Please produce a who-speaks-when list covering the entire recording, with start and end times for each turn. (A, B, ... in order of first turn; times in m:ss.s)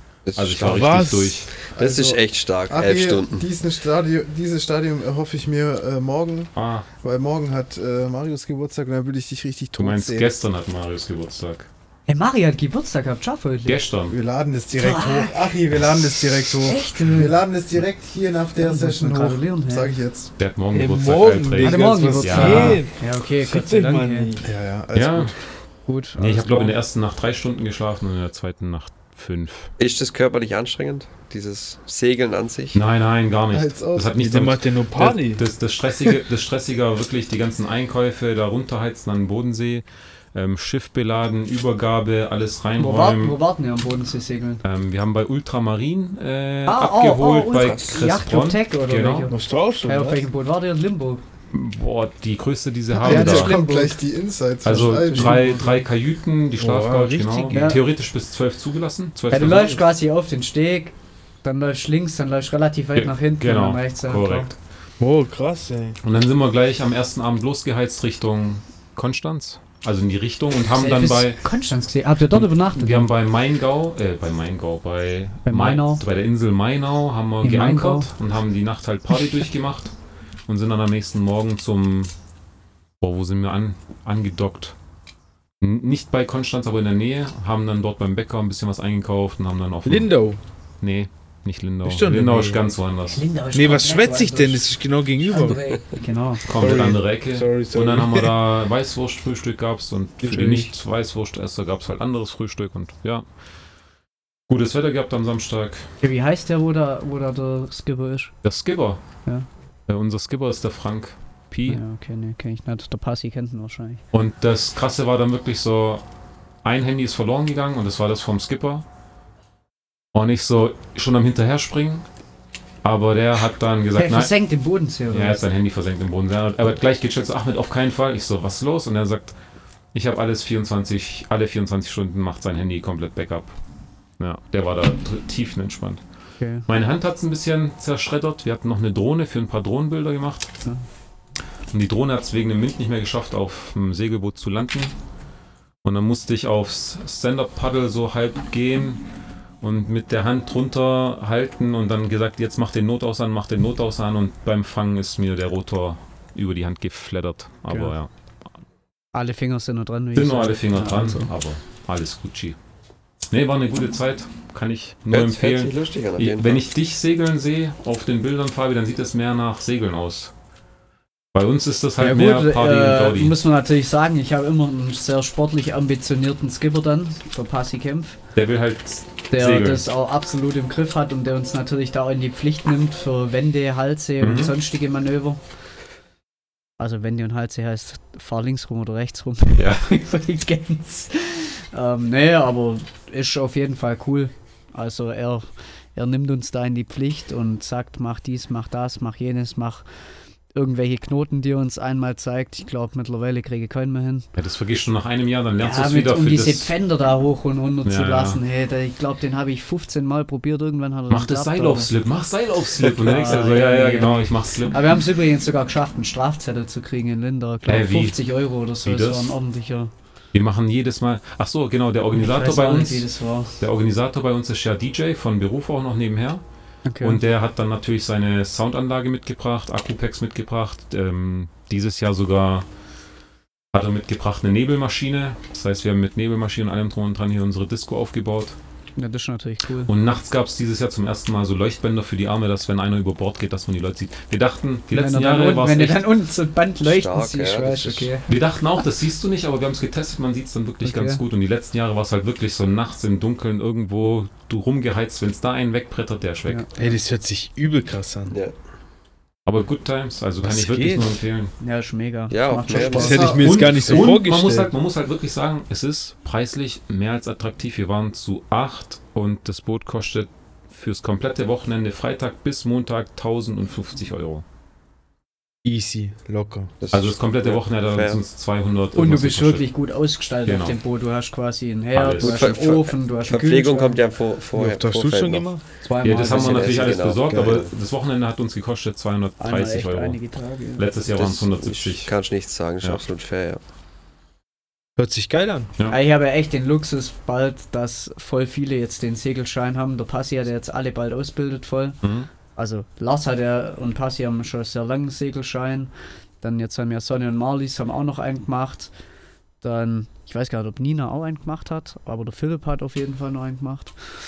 0:00.3-0:00.9 A
0:00.4-0:01.5 B
0:00.6-0:01.5 C
0:01.6-0:03.5 A
0:01.8-0:10.4 D
0:06.6-0:06.9 B
0:09.8-0:11.7 B
0:12.1-0:13.8 E
0:13.7-0:14.2 B
0:14.1-0:20.3 D
0:14.8-0:15.4 E
0:16.6-0:17.4 E
0:18.6-0:20.0 E
0:20.4-0:22.8 B
0:20.7-0:24.5 C
0:21.6-0:24.3 E
0:24.4-0:25.3 D
0:24.9-0:25.4 B
0:25.9-0:26.8 E
0:26.2-0:29.7 B
0:29.8-0:32.8 A
0:32.7-0:43.4 B
0:33.5-0:34.1 D
0:34.2-0:35.4 C
0:42.8-0:44.6 E
0:44.6-0:49.3 B
0:46.7-0:51.2 E
0:47.6-0:48.0 A
0:49.3-0:50.2 C
0:51.5-0:53.6 B
0:52.9-0:54.0 E
0:53.0-0:55.5 D
0:54.6-0:59.8 B
0:55.1-0:55.7 E
0:56.6-0:57.8 C
0:57.5-0:57.8 E
0:59.3-1:04.5 E
1:03.0-1:04.5 B
1:05.0-1:06.0 C
1:06.0-1:11.4 B
1:10.8-1:13.1 E
1:12.3-1:19.9 B
1:15.5-1:16.0 E
1:17.4-1:18.1 E
1:20.5-1:22.1 B
1:23.0-1:24.8 B
1:25.6-1:30.1 B
1:29.8-1:30.4 C
1:30.8-1:33.2 B
1:31.8-1:32.7 C
1:33.1-1:34.7 E
1:33.5-1:35.6 C
1:35.3-1:36.4 E
1:36.4-1:43.2 B
1:36.5-1:38.3 C
1:40.2-1:40.7 C
1:44.5-1:45.9 B
1:46.0-1:48.3 E
1:48.4-1:49.0 B
1:49.9-1:51.8 B
1:51.7-1:54.0 E
1:54.1-1:56.0 B
1:56.6-1:58.8 B
2:00.1-2:02.0 B
2:02.8-2:04.3 B
2:04.0-2:05.4 E
2:05.1-2:09.4 B
2:09.9-2:13.5 B
2:14.2-2:16.0 B
2:16.4-2:16.7 E
2:16.7-2:20.5 B
2:21.7-2:24.9 B
2:25.8-2:29.0 B
2:29.6-2:38.1 B
2:37.7-2:37.9 E
2:39.1-2:41.3 E
2:40.2-2:42.6 B
2:43.3-2:50.3 B
2:45.1-2:46.6 A
2:51.3-2:53.4 B
2:52.0-2:58.2 E
2:58.4-2:59.8 B
2:59.3-3:05.4 E
3:04.2-3:04.6 B
3:06.8-3:19.8 E
3:09.6-3:09.8 B
3:20.6-3:24.3 E
3:24.4-3:26.7 B
3:25.6-3:31.9 E
3:27.8-3:28.4 B
3:31.1-3:34.8 B
3:33.0-3:39.9 E
3:37.7-3:38.2 B
3:38.8-3:39.3 B
3:40.3-3:43.1 B
3:42.2-3:43.6 E
3:43.6-3:46.4 B
3:46.8-3:47.2 E
3:47.0-3:52.7 B
3:53.7-3:58.6 B
3:59.0-3:59.9 E
3:59.9-4:06.1 B
4:04.9-4:08.3 E
4:06.8-4:08.1 A
4:08.3-4:16.7 B
4:10.8-4:11.2 E
4:16.8-4:18.4 C
4:19.4-4:21.5 B
4:20.4-4:21.2 C
4:21.6-4:23.4 E
4:22.3-4:23.3 A
4:22.9-4:24.7 C
4:23.0-4:24.0 D
4:23.4-4:34.4 B
4:35.6-4:36.7 C
4:36.8-4:38.2 A
4:36.9-4:39.7 B
4:39.0-4:44.0 E
4:40.5-4:40.8 B
4:42.0-4:42.5 B
4:42.2-4:45.5 A
4:44.6-4:45.6 C
4:45.8-4:46.9 E
4:46.0-4:50.2 B
4:46.2-4:47.7 A
4:49.4-4:50.9 E
4:50.8-4:52.1 B
4:51.1-4:53.6 A
4:55.0-4:55.7 C
4:55.9-5:02.0 E
5:02.0-5:02.3 B
5:02.6-5:08.9 E
5:09.6-5:14.0 E